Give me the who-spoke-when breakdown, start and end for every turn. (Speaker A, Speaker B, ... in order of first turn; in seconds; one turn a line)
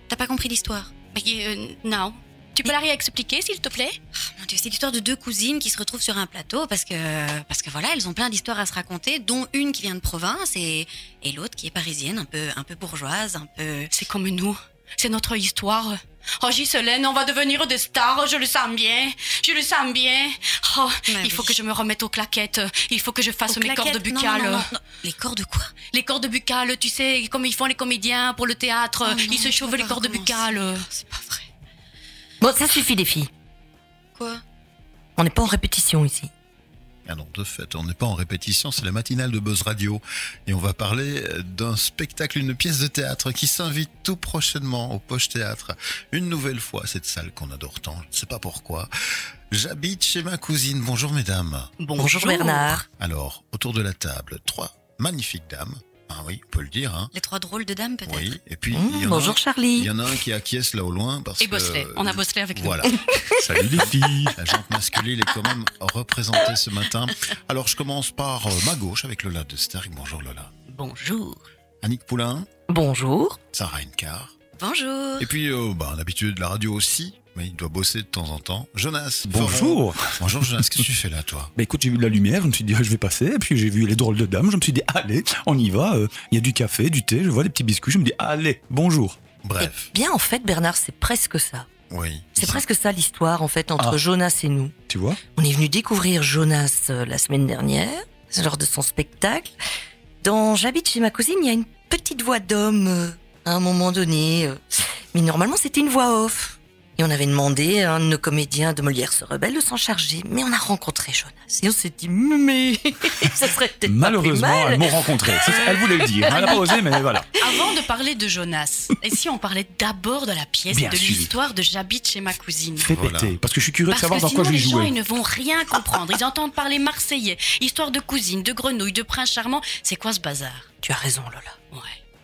Speaker A: 0.1-0.9
Speaker B: 1.1-4.0
Speaker A: 4.2-13.9
Speaker B: 13.9-24.7
Speaker A: 21.1-21.6
Speaker A: 23.5-25.7
Speaker B: 25.9-30.9
Speaker A: 29.0-31.5
Speaker C: 32.4-33.3
Speaker A: 34.1-34.4
Speaker C: 35.2-36.3
Speaker D: 37.1-48.9
Speaker D: 49.5-51.7
Speaker B: 51.8-52.8
Speaker C: 52.0-52.9
Speaker D: 53.0-57.1
Speaker A: 57.1-58.4
Speaker D: 58.1-63.0
Speaker C: 58.7-59.9
Speaker B: 61.4-62.9
Speaker C: 63.0-63.5
Speaker E: 63.4-64.4
Speaker D: 63.7-70.5
Speaker B: 70.8-71.4
Speaker D: 71.8-72.5
Speaker C: 72.7-73.4
Speaker D: 73.5-74.3
Speaker A: 74.6-75.3
Speaker D: 75.2-81.5
Speaker E: 79.2-80.2
Speaker E: 81.6-89.2
Speaker D: 89.4-89.9
Speaker C: 89.6-91.7
Speaker D: 91.9-92.7
Speaker C: 92.4-94.7
Speaker E: 94.9-95.2
Speaker C: 95.3-99.5
Speaker C: 100.2-104.6
Speaker C: 105.1-117.2
Speaker E: 113.8-117.3
Speaker B: 117.4-122.9
Speaker E: 120.7-121.3
Speaker E: 122.8-124.9
Speaker D: 122.9-123.3
Speaker B: 123.9-130.7
Speaker C: 130.8-131.6